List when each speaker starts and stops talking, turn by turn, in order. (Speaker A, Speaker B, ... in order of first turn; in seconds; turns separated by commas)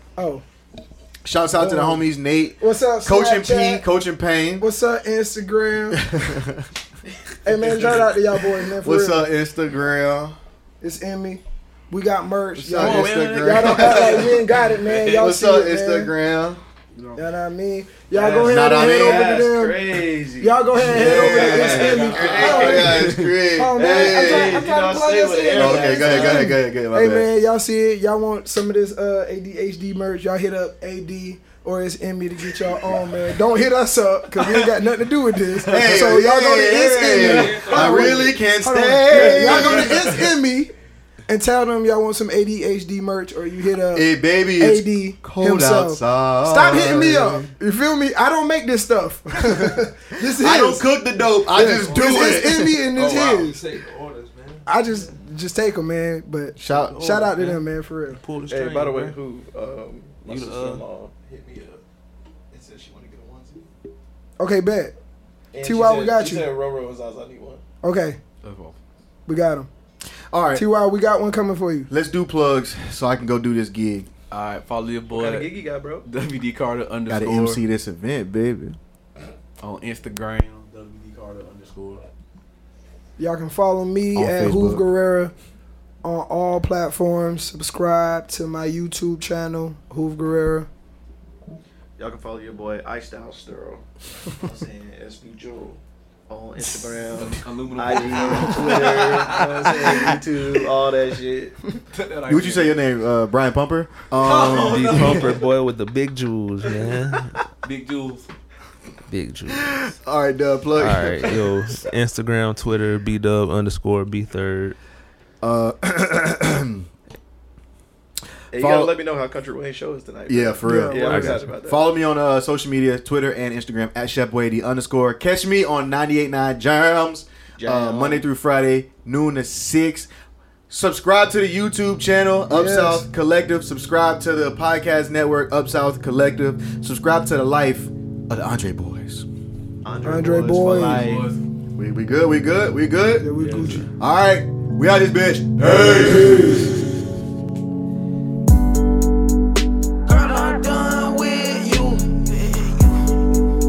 Speaker A: 0.2-0.4, Speaker B: 1.2-4.7, Speaker A: 1.6-2.1, Speaker A: 2.6-3.8, Speaker A: 4.6-6.0, Speaker B: 5.9-6.7, Speaker A: 7.4-9.3, Speaker C: 7.6-8.1, Speaker B: 8.8-10.4, Speaker A: 10.8-16.1, Speaker B: 12.6-14.4, Speaker C: 12.8-15.2, Speaker B: 15.0-16.6, Speaker A: 17.1-40.7, Speaker D: 18.1-23.1, Speaker B: 18.4-19.4, Speaker B: 20.8-24.7, Speaker E: 21.4-22.4, Speaker C: 22.7-23.3, Speaker D: 23.7-26.5, Speaker B: 25.5-27.3, Speaker B: 35.7-40.1, Speaker C: 35.7-36.0, Speaker E: 37.2-38.3, Speaker D: 39.1-40.1, Speaker A: 41.3-50.9, Speaker B: 43.9-47.5, Speaker B: 49.5-52.8, Speaker A: 51.5-53.6, Speaker E: 53.0-55.1, Speaker C: 53.0-53.5, Speaker A: 54.6-58.2, Speaker B: 56.5-57.2, Speaker E: 56.7-57.6, Speaker E: 58.1-59.1, Speaker D: 58.5-61.8, Speaker E: 60.2-60.9, Speaker D: 62.5-63.6, Speaker A: 64.4-64.9, Speaker D: 65.5-67.6, Speaker A: 65.6-66.5, Speaker A: 67.8-68.2, Speaker C: 68.4-68.8, Speaker A: 69.3-69.7, Speaker B: 70.3-70.7, Speaker A: 70.5-71.9, Speaker B: 71.9-74.1, Speaker C: 74.3-77.6, Speaker D: 75.1-76.0, Speaker B: 77.1-78.8, Speaker C: 79.6-82.0, Speaker A: 83.2-85.3, Speaker B: 84.1-84.8, Speaker A: 86.0-90.7, Speaker D: 92.0-101.6, Speaker C: 97.1-100.2, Speaker C: 101.9-102.8, Speaker B: 102.3-105.0, Speaker E: 104.2-107.4, Speaker C: 104.3-105.3, Speaker D: 104.8-105.5, Speaker C: 107.6-108.3, Speaker E: 109.1-109.8, Speaker B: 110.0-111.5, Speaker E: 110.8-114.8, Speaker B: 115.4-116.9, Speaker D: 118.5-121.9, Speaker B: 118.5-118.9, Speaker B: 120.3-130.1, Speaker A: 120.6-121.3, Speaker E: 121.1-121.4, Speaker D: 127.6-128.2, Speaker B: 130.7-139.2, Speaker A: 132.5-133.1, Speaker D: 139.8-141.3, Speaker A: 140.0-141.0, Speaker C: 140.9-141.4, Speaker B: 141.8-143.3, Speaker A: 143.2-143.9, Speaker E: 143.4-143.8, Speaker B: 144.0-146.6, Speaker F: 150.1-153.1